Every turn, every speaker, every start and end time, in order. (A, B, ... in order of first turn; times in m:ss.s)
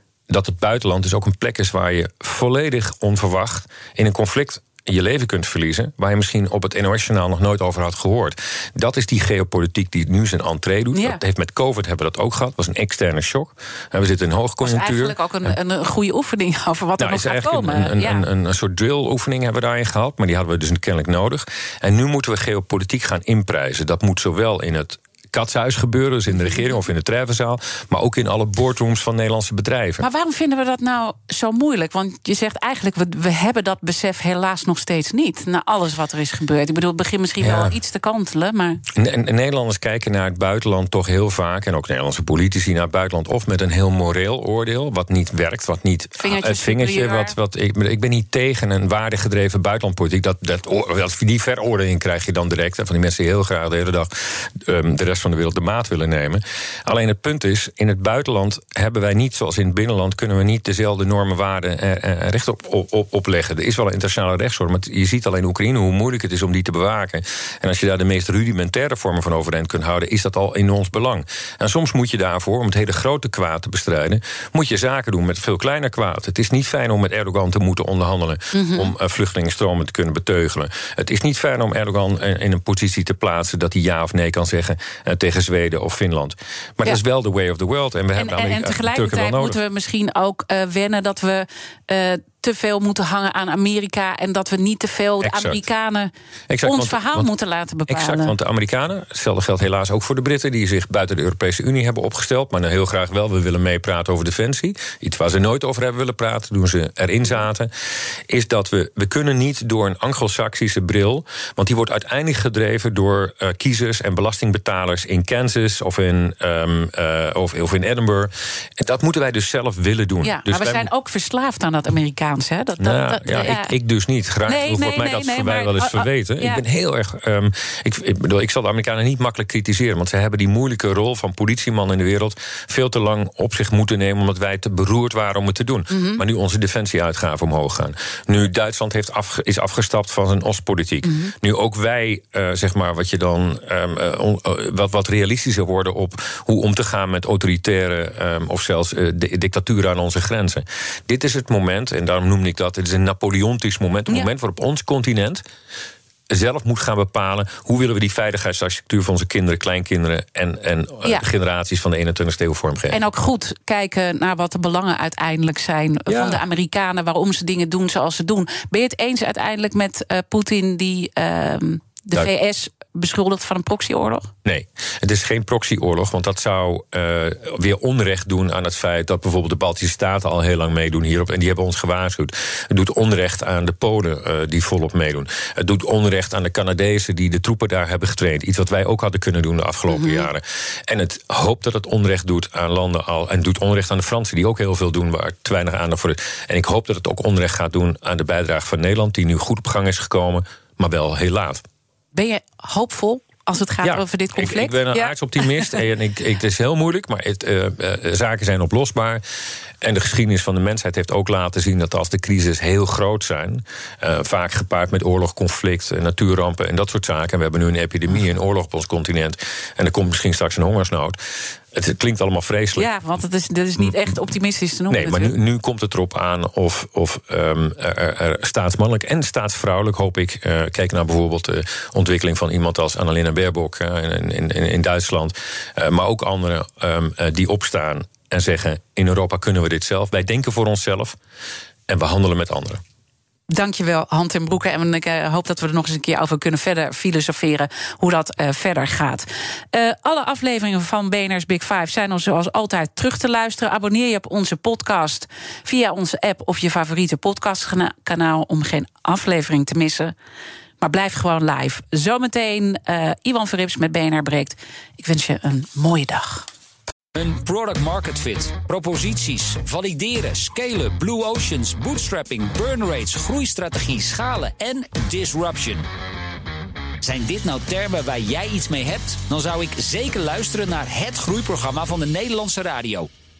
0:00.3-0:15.5 A
0:10.9-0:11.2 B
0:14.6-0:18.2 B
0:17.0-0:30.0 A
0:30.0-0:38.8 B
0:37.4-0:37.7 A
0:38.9-1:29.6 A
0:46.2-0:47.3 B
1:18.5-1:18.9 B
1:28.2-1:36.1 B
1:35.2-1:35.6 A
1:36.5-1:37.3 A
1:36.6-1:38.3 B
1:37.9-1:47.7 A
1:48.3-2:00.9 A
2:00.2-2:03.7 B
2:02.8-2:35.4 A
2:04.4-2:06.6 B
2:15.9-2:16.2 B
2:21.0-2:21.3 B
2:36.3-2:43.0 A
2:42.9-2:54.3 B
2:46.1-2:46.4 A
2:54.4-3:21.6 A
3:09.9-3:10.3 B
3:22.1-3:25.8 B
3:23.8-3:29.2 A
3:29.8-3:41.2 A
3:41.7-3:42.9 A
3:42.8-3:45.3 B
3:44.9-4:01.2 A
4:01.9-4:02.8 A
4:03.5-4:20.1 B
4:20.8-4:26.5 B
4:27.1-4:35.8 C
4:37.0-4:43.1 C